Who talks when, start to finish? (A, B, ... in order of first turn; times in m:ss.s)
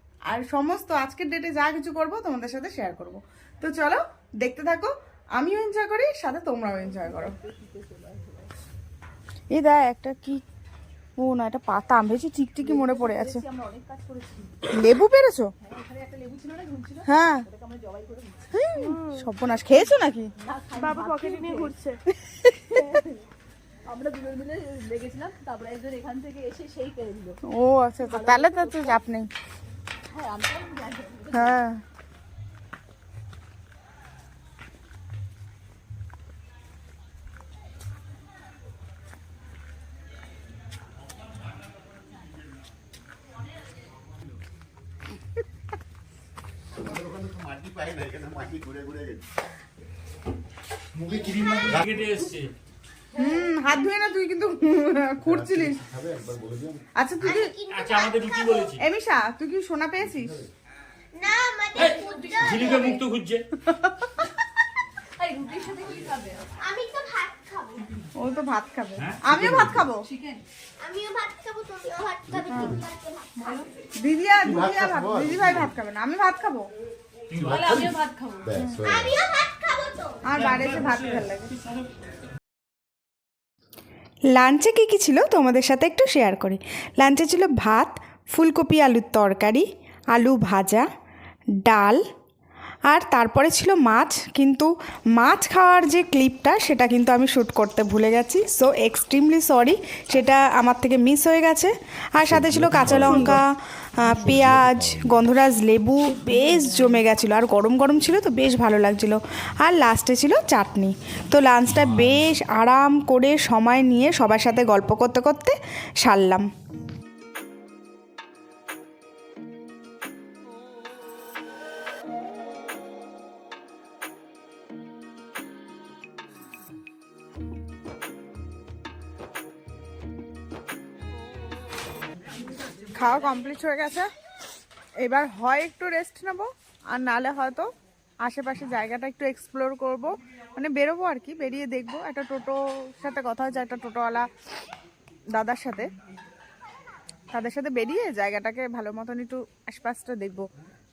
0:00.3-0:07.4 A
0:06.9-0:08.5 B
0:09.5-0:10.4 A
0:11.2-0:13.4 A
0:12.6-0:14.7 B
0:14.7-0:15.5 A
0:15.6-0:18.7 B
0:17.1-0:17.5 A
0:18.6-0:20.3 A
0:20.4-0:21.8 B
0:20.8-0:23.0 A
0:22.5-0:23.2 B
0:23.9-0:27.4 B
0:27.5-0:29.3 A
0:28.0-0:29.0 B
0:30.1-0:31.6 B
0:31.3-0:31.8 A
0:48.4-0:48.8 C
0:51.0-0:52.5 D
0:53.1-0:55.8 A
0:56.1-0:56.7 C
0:57.0-0:57.6 A
0:57.2-0:58.7 E
0:57.7-0:58.8 D
0:58.7-1:00.4 A
1:01.2-1:03.0 E
1:01.8-1:03.4 D
1:02.1-1:02.5 B
1:03.7-1:04.1 A
1:05.2-1:06.6 B
1:06.6-1:07.8 E
1:08.2-1:10.1 A
1:09.1-1:09.4 D
1:10.1-1:10.4 B
1:10.8-1:13.5 E
1:12.5-1:12.8 A
1:14.0-1:16.7 A
1:17.3-1:17.8 D
1:17.4-1:18.6 B
1:18.6-1:18.8 A
1:18.6-1:19.0 C
1:18.8-1:20.4 E
1:20.2-1:21.5 A
1:24.3-1:30.8 F
1:31.6-1:32.0 F
1:32.9-1:56.4 F
1:42.2-1:43.3 C
1:43.0-1:43.4 A
1:44.2-1:45.1 C
2:12.9-2:14.1 A
2:15.0-2:17.7 A
2:18.2-2:24.3 A
2:25.3-2:25.9 A
2:27.3-2:30.5 A